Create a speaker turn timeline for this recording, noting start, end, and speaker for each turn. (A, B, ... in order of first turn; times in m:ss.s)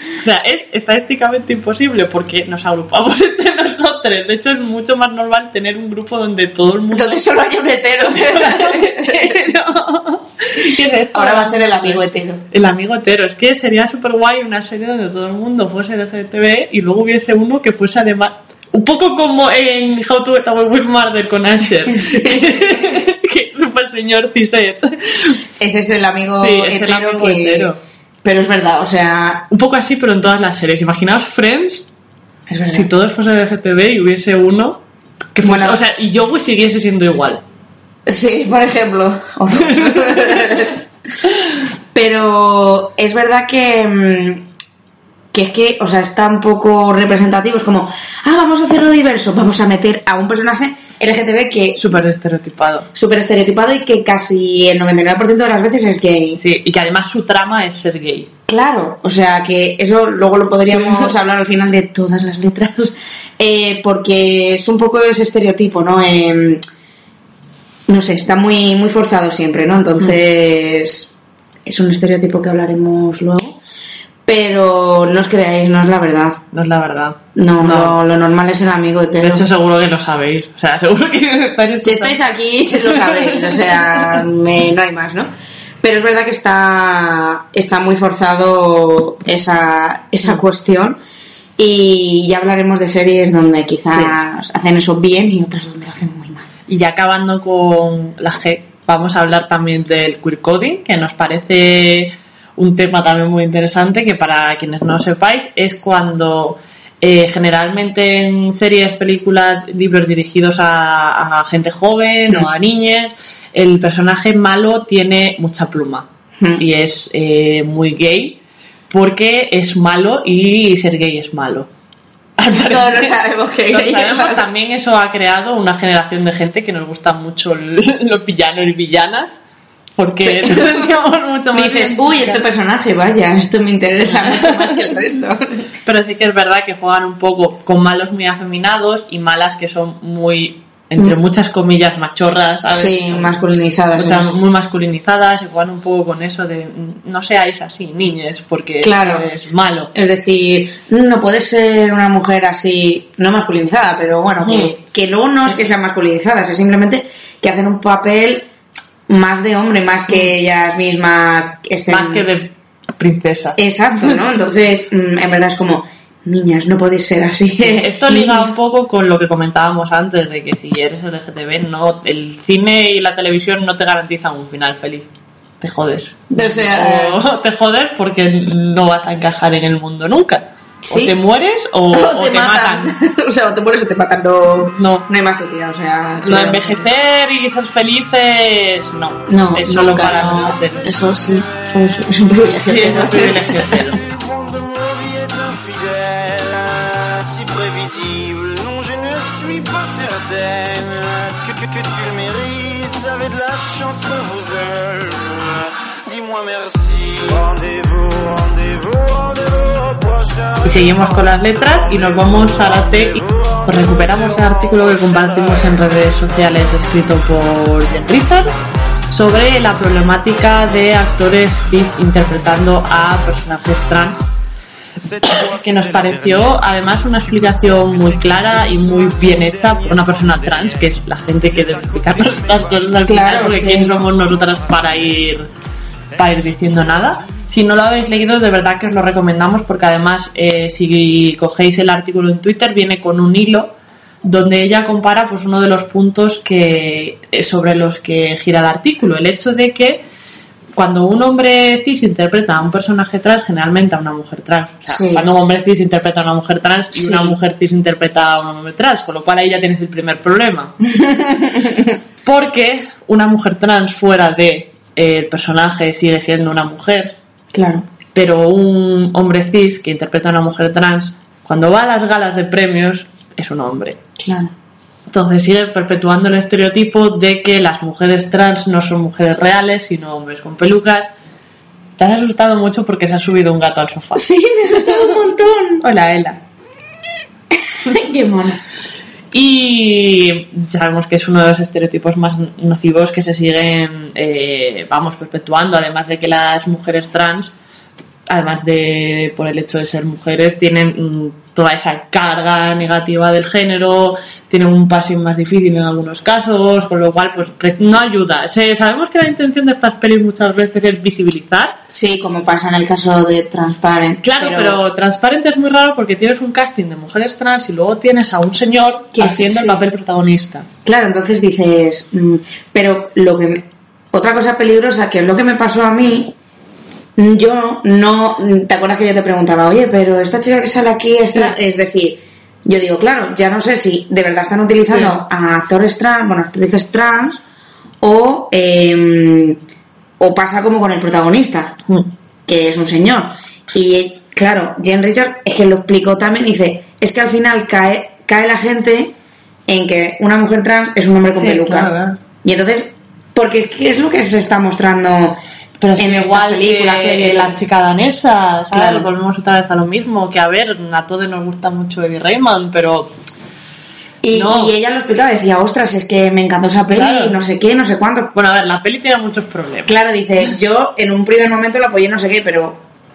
0:00.2-0:07.2 A
0:06.9-0:09.3 B
0:08.2-0:25.4 A
0:11.1-0:12.4 B
0:21.9-0:22.7 B
0:25.6-0:27.7 B
0:26.4-0:27.8 A
0:28.2-0:29.5 B
0:29.5-0:31.9 A
0:32.5-0:32.9 B
0:32.7-0:34.8 A
0:35.3-0:37.4 A
0:35.4-0:35.8 B
0:38.1-0:40.8 B
0:39.5-0:40.7 A
0:41.9-0:44.4 B
0:45.3-0:51.8 B
0:51.8-0:52.9 A
0:52.9-0:56.4 B
0:56.3-0:58.3 A
0:58.5-1:06.6 B
1:00.7-1:01.1 A
1:07.9-1:11.1 B
1:11.6-1:13.6 B
1:14.2-1:16.4 B
1:16.5-1:18.0 A
1:17.4-1:19.4 B
1:19.2-1:22.2 A
1:21.8-1:25.3 B
1:22.8-1:23.8 A
1:25.8-1:31.0 B
1:31.6-1:36.5 B
1:36.7-1:56.1 A
1:56.4-1:56.6 B
1:56.6-1:58.4 A
1:58.9-2:01.7 A
2:02.4-2:03.1 A
2:02.5-2:04.4 B
2:03.7-2:09.4 A
2:10.0-2:12.4 A
2:10.2-2:10.9 B
2:11.5-2:15.7 B
2:14.0-2:14.7 A
2:15.8-2:23.4 A
2:22.7-2:24.3 B
2:23.9-2:29.9 A
2:28.8-2:29.3 B
2:29.9-2:38.5 B
2:34.4-2:34.7 A
2:39.1-2:42.2 B
2:41.9-2:44.2 A
2:43.6-2:48.4 B
2:47.6-2:55.1 A
2:55.6-3:02.9 A
2:56.3-2:57.2 B
3:00.8-3:01.1 B
3:01.9-3:06.8 B
3:04.6-3:05.0 A
3:06.2-3:10.9 A
3:09.3-3:13.9 B
3:09.7-3:37.0 C
3:12.6-3:14.0 A
3:30.6-3:38.5 A
3:37.7-3:38.6 C
3:39.1-3:44.3 A
3:39.3-3:39.6 C
3:45.0-3:55.4 C
3:45.3-3:55.5 A
3:53.1-3:54.0 B
3:56.1-3:57.5 C
3:56.2-4:10.0 A
4:10.7-4:20.7 A
4:14.9-4:15.2 B
4:16.9-4:17.4 B
4:20.9-4:21.9 B
4:22.2-4:27.1 A
4:27.5-4:27.8 B
4:28.1-4:34.0 A
4:34.2-4:34.5 B
4:35.1-4:41.1 A
4:42.0-4:44.3 A
4:44.2-4:45.8 B
4:44.8-4:45.2 A
4:45.8-4:46.4 A
4:47.8-4:48.6 B
4:49.3-4:57.5 A
4:58.3-5:11.8 A
5:11.9-5:14.8 B
5:14.2-5:20.7 A
5:19.1-5:19.8 B
5:20.8-5:26.3 B
5:27.2-5:37.4 B
5:34.9-5:35.2 A
5:38.0-5:39.6 B
5:40.2-5:41.8 B
5:42.4-5:49.1 B
5:49.7-5:51.9 B
5:51.3-5:52.2 A
5:52.4-5:55.4 B
5:55.8-6:03.1 A
5:56.0-5:57.6 B
5:58.7-5:59.1 B
6:04.2-6:08.3 B
6:04.3-6:04.7 A
6:06.9-6:07.4 A
6:08.3-6:10.0 A
6:09.9-6:12.8 B